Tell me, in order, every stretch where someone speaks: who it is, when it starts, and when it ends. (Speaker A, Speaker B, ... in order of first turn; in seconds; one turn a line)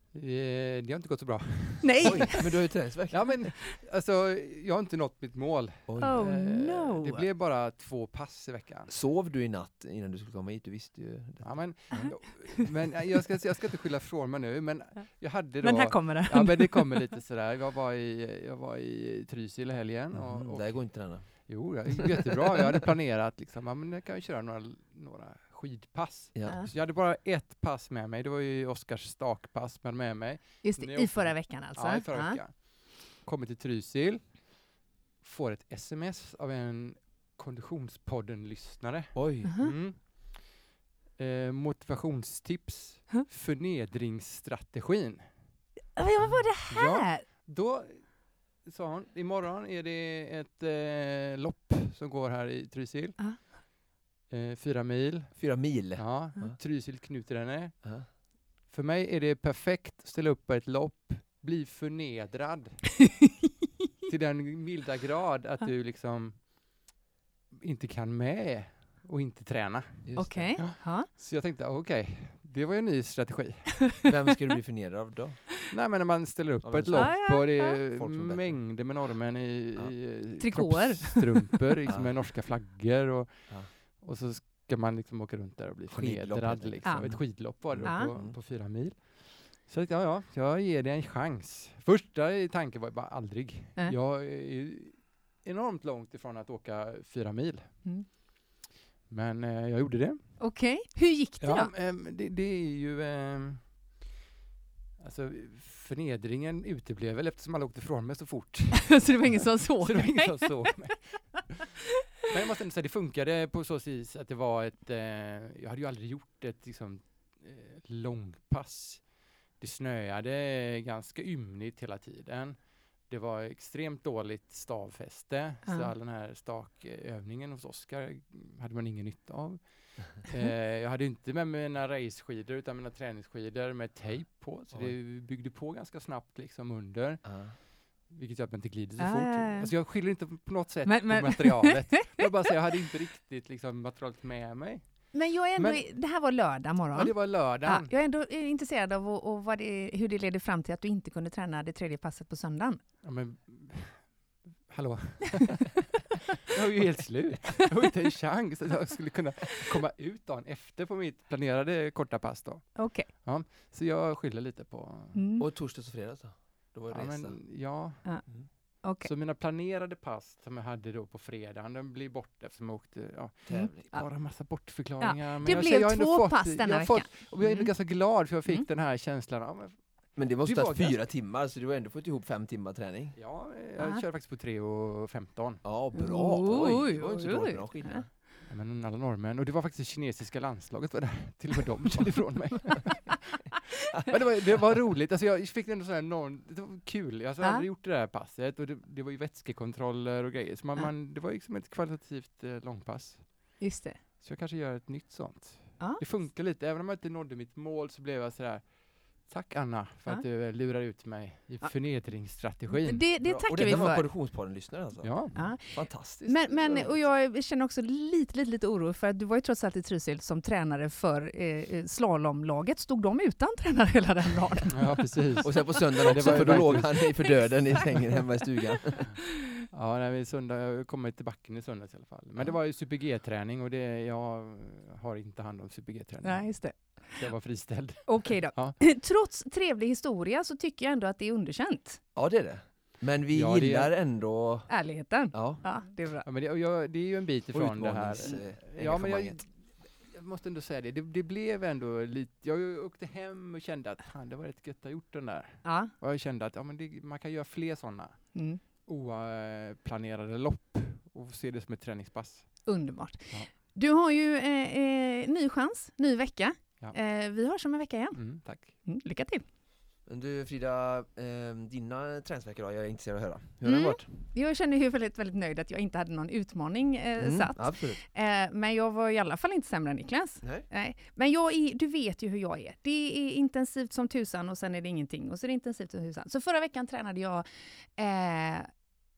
Speaker A: 0.1-2.5
Speaker B: 1.8-2.4
Speaker C: 2.0-3.5
Speaker A: 3.1-8.9
Speaker C: 5.9-6.2
Speaker B: 6.0-7.2
Speaker C: 8.9-12.7
Speaker A: 11.4-40.5
Speaker B: 15.6-17.1
Speaker C: 20.1-22.1
Speaker C: 26.3-26.6
Speaker B: 30.6-32.4
Speaker C: 39.1-39.5
Speaker B: 39.5-39.7
Speaker A: 41.2-45.4
Speaker B: 46.0-47.3
Speaker A: 46.7-53.5
Speaker A: 54.3-63.1
Speaker C: 55.3-56.6
Speaker A: 64.1-66.5
Speaker A: 67.5-74.1
Speaker C: 70.0-70.7
Speaker B: 70.2-71.1
Speaker C: 74.0-75.4
Speaker A: 75.7-97.8
Speaker C: 76.6-77.3
Speaker B: 76.9-77.8
Speaker C: 77.9-78.7
Speaker B: 80.4-81.7
Speaker C: 81.9-82.2
Speaker C: 85.9-88.4
Speaker B: 86.8-88.1
Speaker A: 99.1-100.5
Speaker B: 100.4-101.7
Speaker A: 101.4-103.8
Speaker A: 105.0-145.9
Speaker B: 108.9-111.0
Speaker B: 125.6-125.9
Speaker C: 137.2-137.6
Speaker B: 139.0-139.9
Speaker B: 140.8-142.2
Speaker B: 145.1-152.8
Speaker A: 146.9-147.9
Speaker A: 153.0-156.0
Speaker A: 156.5-165.2
Speaker B: 162.8-163.1
Speaker B: 165.1-165.5
Speaker C: 165.4-167.4
Speaker A: 166.9-181.0
Speaker B: 168.0-169.1
Speaker C: 173.4-173.8
Speaker B: 173.5-177.7
Speaker C: 180.1-183.2
Speaker A: 183.2-185.8
Speaker B: 183.8-184.0
Speaker C: 185.6-188.1
Speaker B: 185.9-188.1
Speaker A: 188.4-203.7
Speaker B: 203.6-204.0
Speaker A: 204.2-213.0
Speaker B: 211.6-214.1
Speaker C: 213.2-217.1
Speaker A: 215.0-215.4
Speaker B: 215.3-228.4
Speaker A: 224.7-227.4
Speaker C: 225.4-229.2
Speaker A: 229.7-238.8
Speaker B: 236.2-237.3
Speaker B: 238.0-242.0
Speaker C: 242.1-245.6
Speaker A: 243.3-243.9
Speaker B: 244.7-246.2
Speaker A: 246.2-262.7
Speaker C: 247.5-249.4
Speaker B: 255.6-255.9
Speaker B: 258.3-258.6
Speaker B: 262.6-269.4
Speaker A: 268.1-268.7
Speaker C: 270.1-274.1
Speaker B: 273.6-288.7
Speaker C: 277.2-278.0